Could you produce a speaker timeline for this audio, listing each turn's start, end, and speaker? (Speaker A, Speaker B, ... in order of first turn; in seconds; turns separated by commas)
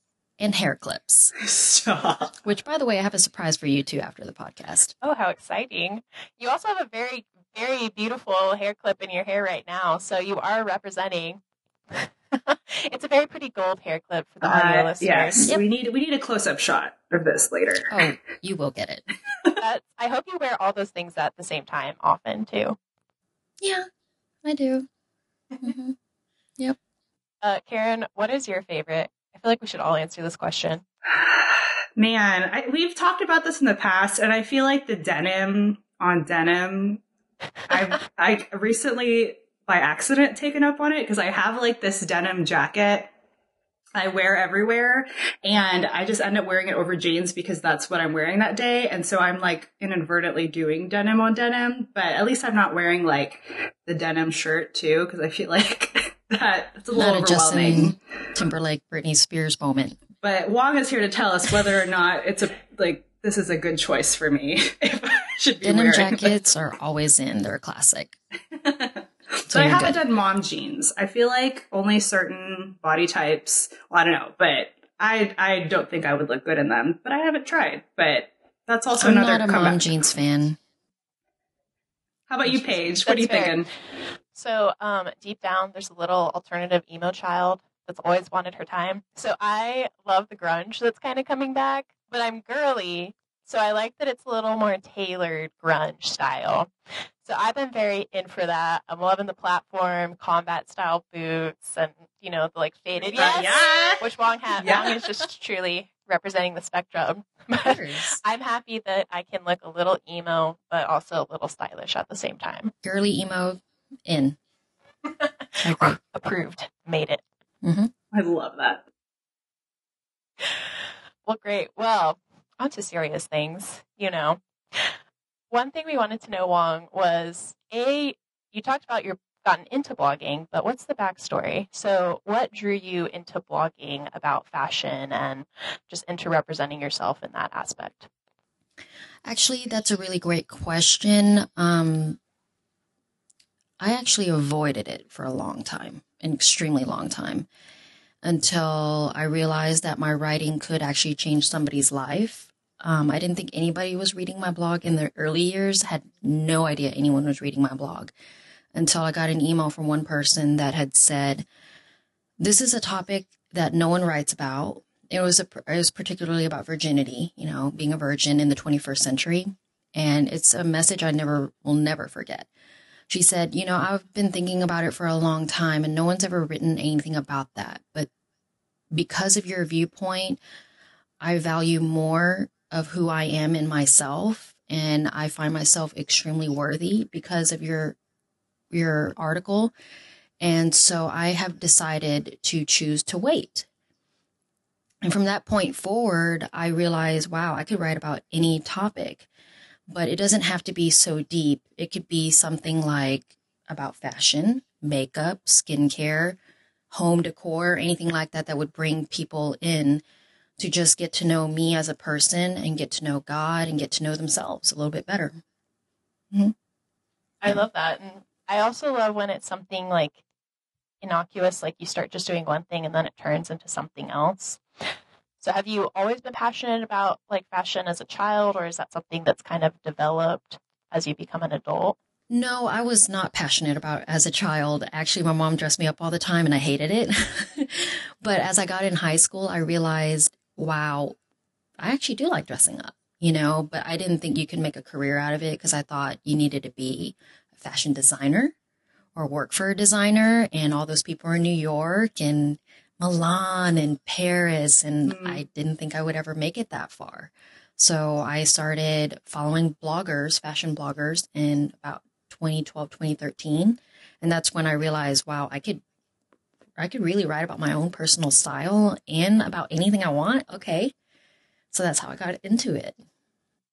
Speaker A: 0.4-1.3, Speaker B: 1.4-2.4, Speaker A: 2.4-4.9, Speaker C: 5.0-11.4, Speaker C: 11.9-15.5, Speaker B: 14.4-17.9, Speaker A: 17.9-19.1, Speaker C: 19.6-22.8, Speaker A: 24.4-24.9, Speaker A: 25.6-25.9, Speaker C: 27.4-30.8, Speaker B: 31.1-37.0, Speaker B: 37.7-43.1, Speaker B: 43.9-58.0, Speaker A: 56.9-60.0, Speaker B: 60.2-66.3, Speaker A: 65.6-68.2, Speaker B: 68.7-79.9, Speaker A: 69.5-70.0, Speaker A: 79.0-80.6, Speaker B: 82.3-83.7, Speaker C: 83.0-83.6, Speaker C: 84.3-96.7, Speaker C: 97.2-112.7, Speaker B: 103.1-104.0, Speaker B: 104.6-105.0, Speaker A: 107.6-108.2, Speaker A: 112.8-114.4, Speaker C: 115.2-117.2, Speaker A: 115.6-116.0, Speaker A: 117.6-117.9, Speaker B: 118.1-118.8, Speaker C: 121.2-124.9, Speaker C: 125.5-138.1, Speaker A: 139.2-142.2, Speaker A: 143.8-147.5, Speaker A: 148.2-158.1, Speaker A: 158.7-161.4, Speaker A: 162.4-172.5, Speaker A: 173.1-178.1, Speaker A: 178.9-180.4, Speaker A: 181.2-188.0, Speaker A: 188.7-189.7, Speaker A: 190.4-193.7, Speaker A: 195.0-199.3, Speaker A: 199.9-206.4, Speaker A: 206.9-210.0, Speaker A: 210.6-215.4, Speaker C: 217.4-220.2, Speaker C: 221.0-224.6, Speaker C: 225.4-232.0, Speaker A: 232.3-241.2, Speaker A: 241.8-248.5, Speaker A: 249.2-265.8, Speaker B: 255.1-255.4, Speaker A: 266.8-270.9, Speaker A: 271.7-273.0